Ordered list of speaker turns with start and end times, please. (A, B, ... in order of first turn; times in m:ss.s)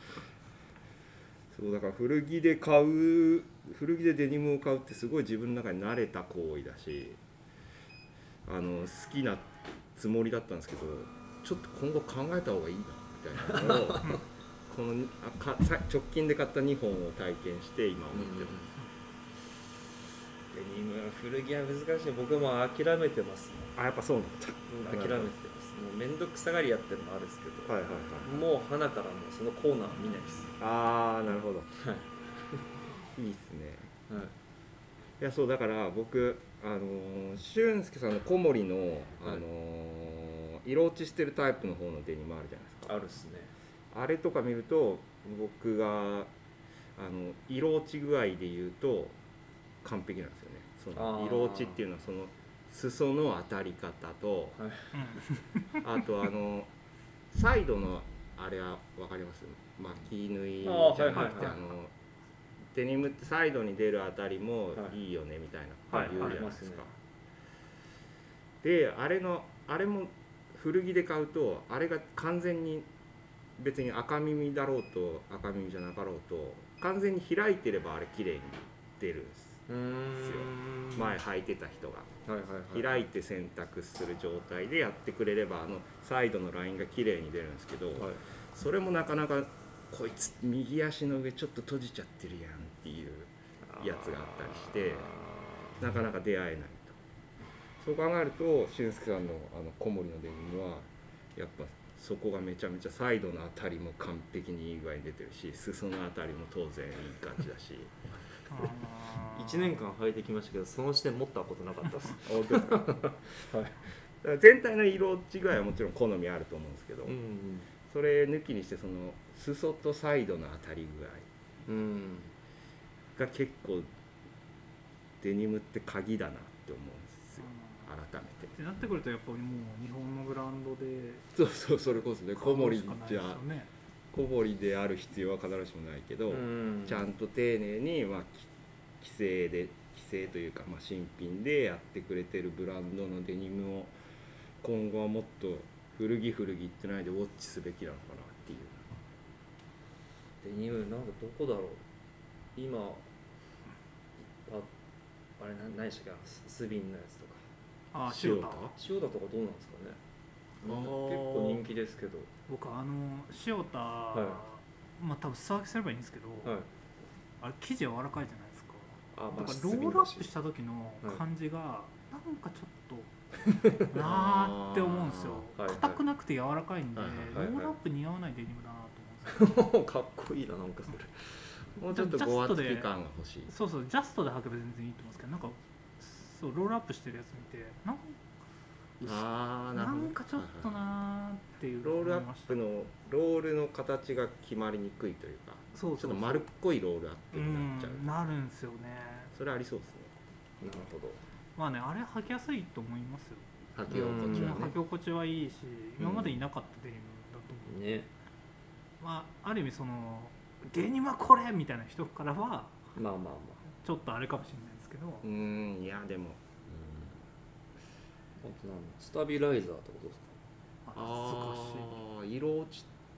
0:01.5-0:07.2 A
0:08.4-0:18.7 A
0:13.8-0:14.1 B
0:18.1-0:18.7 B
0:20.5-0:23.7 B
0:23.7-0:25.3 A
0:24.7-0:30.6 B
0:27.7-0:28.5 A
0:30.6-0:31.7 A
0:31.8-0:32.7 B
0:33.1-0:33.9 A
0:34.1-0:34.3 B
0:35.2-0:42.9 A
0:42.8-0:43.5 B
0:43.9-0:46.3 A
0:47.0-0:49.2 A
0:49.8-0:54.6 A
0:50.9-0:51.8 B
0:54.5-0:55.1 B
0:55.0-0:55.8 C
0:55.8-0:56.7 A
0:57.3-1:01.9 A
1:00.6-1:01.6 B
1:02.7-1:06.9 A
1:05.9-1:06.9 B
1:08.6-1:12.9 A
1:13.6-1:19.6 A
1:19.7-1:21.2 B
1:20.2-1:22.1 A
1:22.2-1:23.0 B
1:22.7-1:35.1 A
1:27.9-1:28.2 B
1:33.7-1:34.1 B
1:35.8-1:37.0 A
1:37.8-1:48.0 A
1:48.5-1:49.8 C
1:49.3-1:53.8 B
1:52.2-1:53.0 A
1:54.2-1:57.2 A
1:57.0-1:57.7 B
1:57.9-2:01.3 A
2:01.6-2:02.3 B
2:03.2-2:03.9 A
2:05.2-2:08.6 A
2:07.5-2:07.9 C
2:08.5-2:11.2 C
2:11.3-2:13.5 A
2:12.3-2:13.7 C
2:14.1-2:23.9 A
2:16.3-2:17.0 B
2:24.6-2:28.9 A
2:30.4-2:31.8 B
2:32.5-2:33.1 B
2:34.2-2:34.7 B
2:35.4-2:37.4 B
2:37.9-2:38.7 C
2:38.0-2:38.7 A
2:38.7-2:40.0 B
2:40.6-2:42.3 B
2:40.6-2:41.6 A
2:42.5-2:46.6 C
2:44.1-2:44.4 B
2:46.4-2:46.7 B
2:47.4-2:53.1 C
2:49.1-2:50.3 B
2:53.6-2:59.6 C
2:53.9-2:55.4 A
2:55.6-2:56.0 B
2:57.0-2:57.5 A
2:57.3-2:57.8 B
2:59.2-3:01.6 B
3:01.8-3:03.5 A
3:01.9-3:02.9 C
3:03.5-3:08.2 C
3:09.0-3:12.6 C
3:09.0-3:10.8 A
3:11.8-3:18.3 A
3:15.7-3:16.5 C
3:17.3-3:19.3 C
3:19.3-3:20.1 A
3:20.6-3:21.2 B
3:21.6-3:27.8 C
3:23.7-3:24.8 A
3:23.9-3:24.6 B
3:26.0-3:26.4 B
3:27.6-3:28.1 B
3:29.0-3:32.9 C
3:32.9-3:33.6 B
3:33.7-3:35.3 C
3:35.2-3:37.3 A
3:38.4-3:40.4 B
3:40.8-3:42.0 C
3:40.9-3:42.9 A